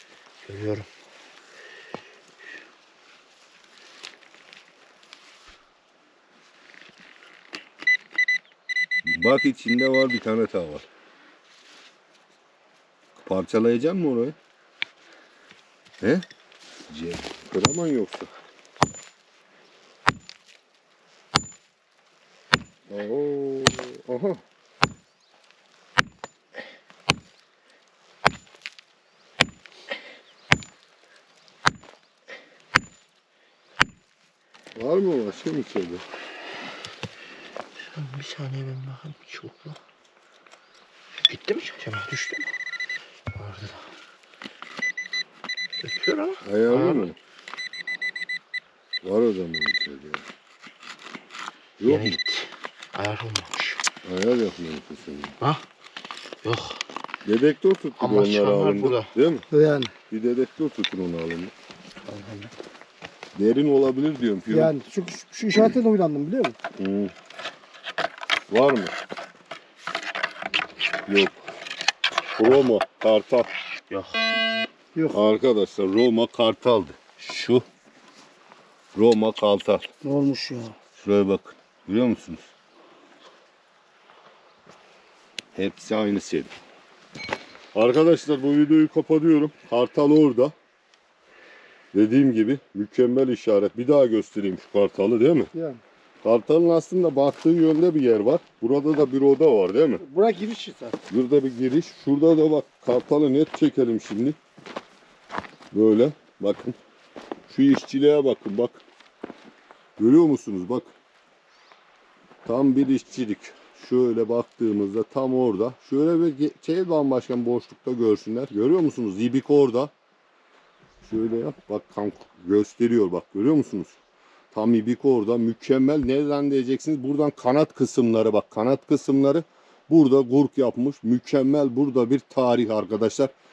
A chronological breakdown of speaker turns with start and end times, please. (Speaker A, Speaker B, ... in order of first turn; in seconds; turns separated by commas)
Speaker A: 0.5-0.9, Speaker B: 9.1-10.8, Speaker B: 13.2-14.4, Speaker B: 16.0-16.2, Speaker B: 16.9-18.3, Speaker B: 22.9-24.4, Speaker B: 34.8-36.0, Speaker A: 37.9-39.8, Speaker A: 41.2-42.5, Speaker A: 43.3-43.9, Speaker A: 45.8-47.1, Speaker B: 46.4-47.2, Speaker B: 49.0-50.2, Speaker B: 51.8-52.2, Speaker A: 51.9-53.8, Speaker B: 54.0-55.4, Speaker A: 56.4-56.8, Speaker B: 57.2-59.5, Speaker A: 58.0-59.1, Speaker C: 59.5-59.9, Speaker B: 60.1-61.5, Speaker A: 62.1-62.5, Speaker B: 63.4-64.7, Speaker C: 64.5-66.6, Speaker B: 66.8-67.1, Speaker B: 68.5-69.0, Speaker B: 71.0-71.4, Speaker B: 72.4-73.5, Speaker A: 73.9-74.2, Speaker B: 75.1-77.6, Speaker B: 79.0-79.9, Speaker C: 80.0-80.8, Speaker B: 81.0-82.5, Speaker B: 85.5-86.5, Speaker B: 87.7-90.5, Speaker B: 91.9-95.5, Speaker C: 95.5-95.8, Speaker B: 96.2-100.0, Speaker C: 100.0-101.0, Speaker B: 101.1-104.4, Speaker B: 105.7-106.8, Speaker B: 107.5-108.8, Speaker B: 110.0-110.9, Speaker B: 112.5-119.9, Speaker B: 121.0-124.0, Speaker B: 124.5-133.3